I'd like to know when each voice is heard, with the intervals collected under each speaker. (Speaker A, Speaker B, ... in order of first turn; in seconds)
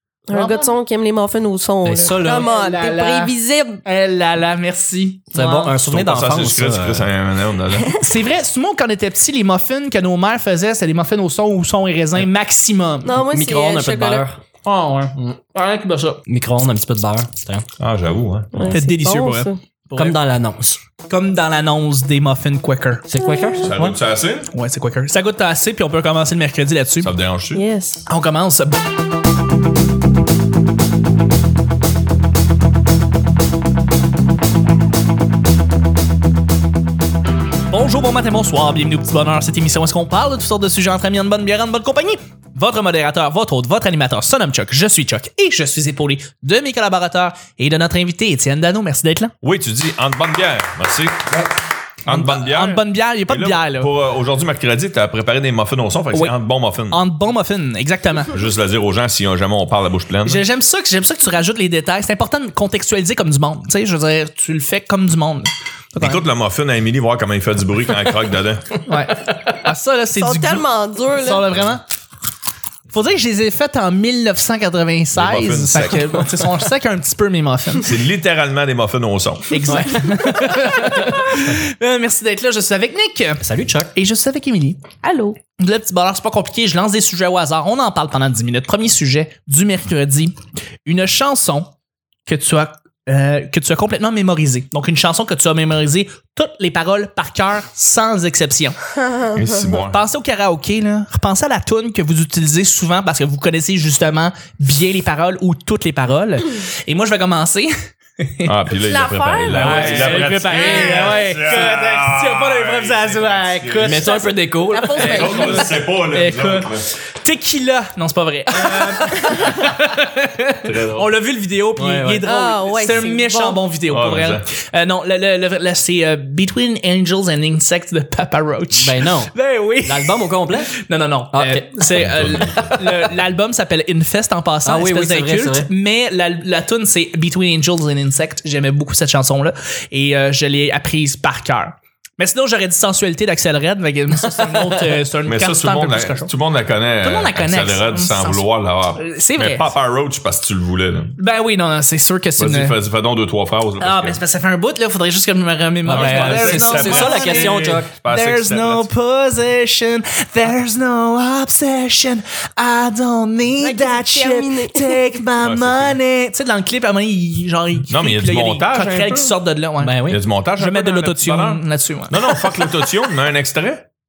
Speaker A: 0.3-3.8, 7.8-8.1, 13.0-14.2, 18.6-19.6, 23.2-23.7, 27.5-28.0, 70.2-71.5, 85.0-85.4, 99.0-99.8, 108.8-111.3, 113.9-115.8, 122.2-123.6, 163.6-165.2
Speaker B: 0.3-0.7, 2.0-3.3, 3.9-5.7, 8.0-13.2, 14.7-16.2, 18.7-20.2, 21.1-23.1, 24.5-27.1, 28.1-28.8, 37.7-49.3, 52.1-53.9, 56.9-58.3, 60.2-66.2, 68.9-71.8, 72.9-77.9, 79.5-83.4, 84.0-85.0, 85.5-91.7, 92.3-98.8, 99.9-108.5, 109.5-114.3, 115.1-146.3, 147.0-149.7, 151.2-152.8, 153.8-170.1, 170.6-172.9
Speaker C: 1.9-2.5, 5.3-7.1, 13.2-14.4, 16.3-17.6, 19.9-20.8, 23.1-24.0, 79.7-81.2, 83.4-83.9, 109.6-110.2, 113.8-115.7, 121.8-122.3, 128.8-130.8, 131.3-131.7, 134.7-135.7, 144.3-144.8, 155.9-157.9, 169.8-170.2
Speaker D: 5.9-8.0, 17.8-18.8, 23.6-24.5, 27.0-27.6, 49.4-51.5, 52.0-57.1, 58.3-60.5, 66.0-68.7, 75.1-76.3, 77.8-79.8, 99.3-100.0, 108.4-114.0, 115.0-116.9, 120.6-121.1, 123.9-124.5, 131.9-133.1, 145.2-151.2, 152.4-154.2, 155.8-158.9, 165.4-166.0, 167.9-169.3, 170.1-173.9